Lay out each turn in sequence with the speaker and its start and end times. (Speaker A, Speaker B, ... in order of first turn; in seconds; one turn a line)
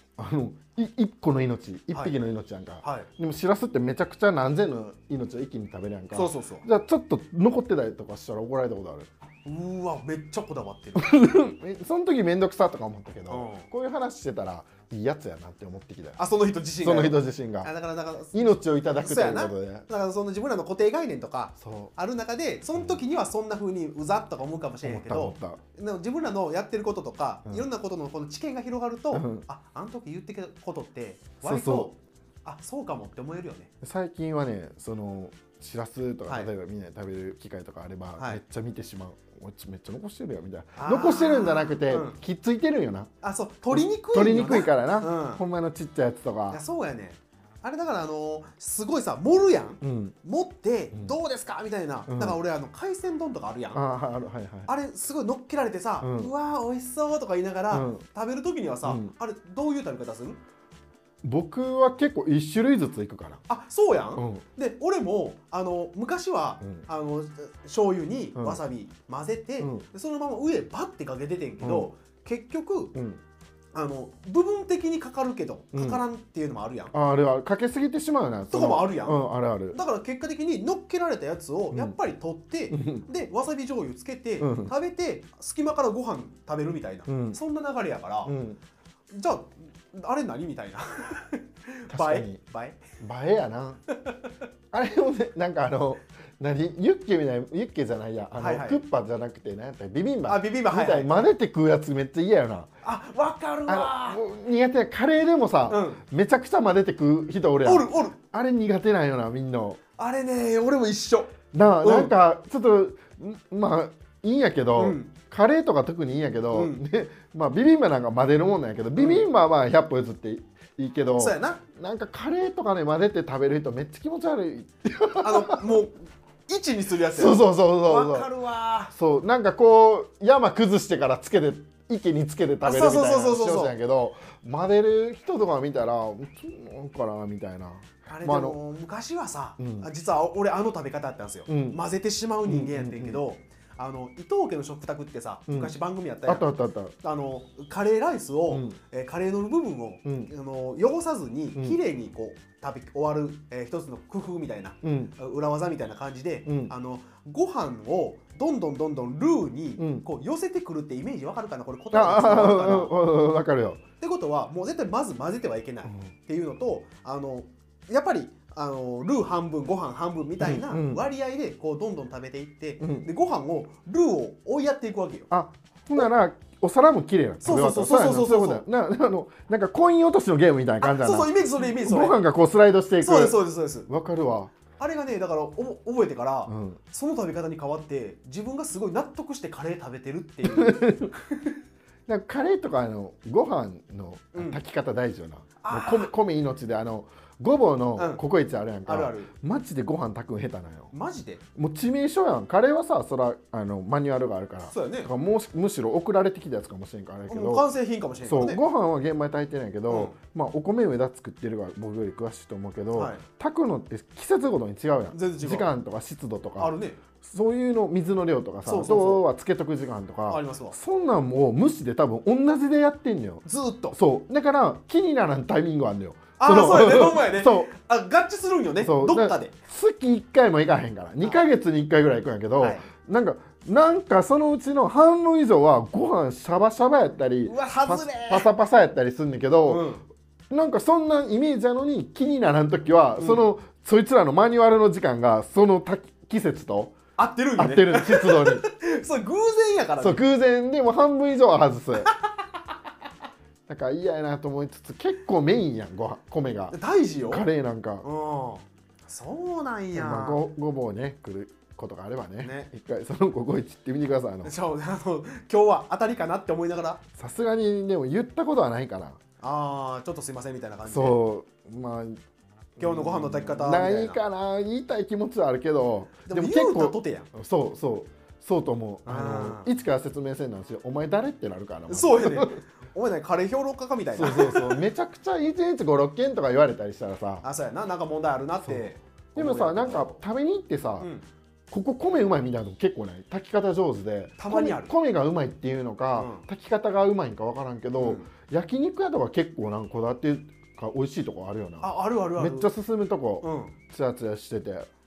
Speaker A: 0.2-9.1
Speaker B: 1.9-2.2
Speaker B: 2.8-3.1
Speaker B: 6.1-6.7
Speaker B: 9.4-11.1
Speaker A: 11.0-16.2
Speaker B: 13.3-13.7
Speaker B: 16.2-33.7
Speaker A: 16.8-17.7
Speaker A: 18.3-19.9
Speaker A: 21.6-21.9
Speaker A: 22.8-23.0
Speaker A: 24.8-25.6
Speaker A: 29.1-29.4
Speaker A: 31.4-31.9
Speaker A: 33.8-43.1
Speaker B: 40.8-42.2
Speaker B: 43.2-45.4
Speaker A: 43.7-46.6
Speaker B: 46.5-53.8
Speaker A: 49.8-50.2
Speaker A: 52.1-52.4
Speaker A: 53.7-54.7
Speaker B: 54.7-60.4
Speaker A: 56.0-56.3
Speaker A: 57.7-58.0
Speaker A: 58.9-59.1
Speaker A: 61.2-63.4
Speaker B: 63.5-73.0
Speaker A: 64.2-64.4
Speaker A: 68.4-68.6
Speaker A: 69.6-69.8
Speaker A: 71.6-71.9
Speaker A: 72.9-73.2
Speaker B: 73.7-76.9
Speaker A: 75.7-76.0
Speaker A: 76.9-79.8
Speaker B: 78.5-88.3
Speaker A: 82.7-83.1
Speaker A: 84.4-84.7
Speaker A: 87.1-87.4
Speaker A: 88.2-88.6
Speaker B: 89.1-92.8
Speaker A: 91.9-92.4
Speaker A: 93.0-93.8
Speaker A: 94.7-102.7
Speaker B: 98.4-98.8
Speaker B: 100.3-101.2
Speaker B: 102.8-104.2
Speaker A: 103.7-109.8
Speaker B: 105.7-106.0
Speaker B: 107.6-108.2
Speaker B: 110.0-112.1
Speaker A: 111.5-125.7
Speaker B: 114.8-115.1
Speaker B: 116.5-116.8
Speaker B: 119.0-119.2
Speaker B: 121.2-121.6
Speaker B: 125.2-128.9
Speaker A: 127.1-128.3
Speaker A: 128.9-138.6
Speaker B: 132.6-133.7
Speaker B: 138.1-146.5
Speaker A: 139.6-139.9
Speaker A: 141.5-141.8
Speaker A: 142.4-143.2
Speaker A: 145.5-145.7
Speaker A: 146.3-146.9
Speaker B: 147.0-162.9
Speaker A: 148.5-148.8
Speaker A: 150.1-150.3
Speaker A: 154.8-155.1
Speaker A: 156.5-156.7
Speaker A: 159.8-160.1
Speaker A: 161.9-163.8
Speaker B: 164.0-175.3
Speaker A: 170.4-171.0
Speaker A: 172.8-173.1
Speaker A: 175.3-184.5
Speaker B: 177.4-178.6
Speaker B: 180.8-182.2
Speaker B: 183.0-183.9
Speaker B: 184.8-191.6
Speaker A: 186.5-186.8
Speaker A: 190.5-191.1
Speaker A: 192.1-200.9
Speaker B: 194.3-194.6
Speaker B: 195.6-196.1
Speaker B: 198.0-198.2
Speaker B: 198.9-199.3
Speaker B: 200.9-201.4
Speaker A: 201.6-207.7
Speaker B: 204.7-205.1
Speaker B: 207.3-208.6
Speaker A: 208.2-227.7
Speaker B: 209.9-210.2
Speaker B: 212.9-213.2
Speaker B: 215.1-215.7
Speaker B: 216.6-217.0
Speaker B: 218.7-219.2
Speaker B: 220.3-220.8
Speaker B: 223.4-224.0
Speaker B: 226.4-229.5
Speaker A: 228.8-239.9
Speaker B: 232.6-232.9
Speaker B: 237.4-238.5
Speaker B: 239.7-240.0
Speaker A: 240.5-247.0
Speaker B: 243.2-243.4
Speaker B: 247.2-250.2
Speaker A: 247.6-248.6
Speaker A: 250.0-252.1
Speaker B: 252.0-252.4
Speaker A: 253.7-256.8
Speaker B: 256.7-257.5
Speaker A: 257.3-258.1
Speaker B: 258.0-260.4
Speaker A: 259.9-264.5
Speaker B: 262.4-262.7
Speaker B: 264.4-267.0
Speaker A: 267.2-269.2
Speaker B: 269.4-271.2
Speaker A: 270.9-272.2
Speaker A: 272.8-282.6
Speaker B: 272.8-274.2
Speaker B: 276.3-277.3
Speaker B: 279.1-279.7
Speaker B: 281.9-284.8
Speaker A: 284.1-287.4
Speaker B: 287.4-290.2
Speaker A: 289.4-291.1
Speaker B: 291.0-291.2
Speaker A: 291.7-304.9
Speaker B: 294.4-294.9
Speaker B: 296.1-296.5
Speaker B: 298.0-298.3
Speaker B: 301.8-302.7
Speaker B: 303.4-303.8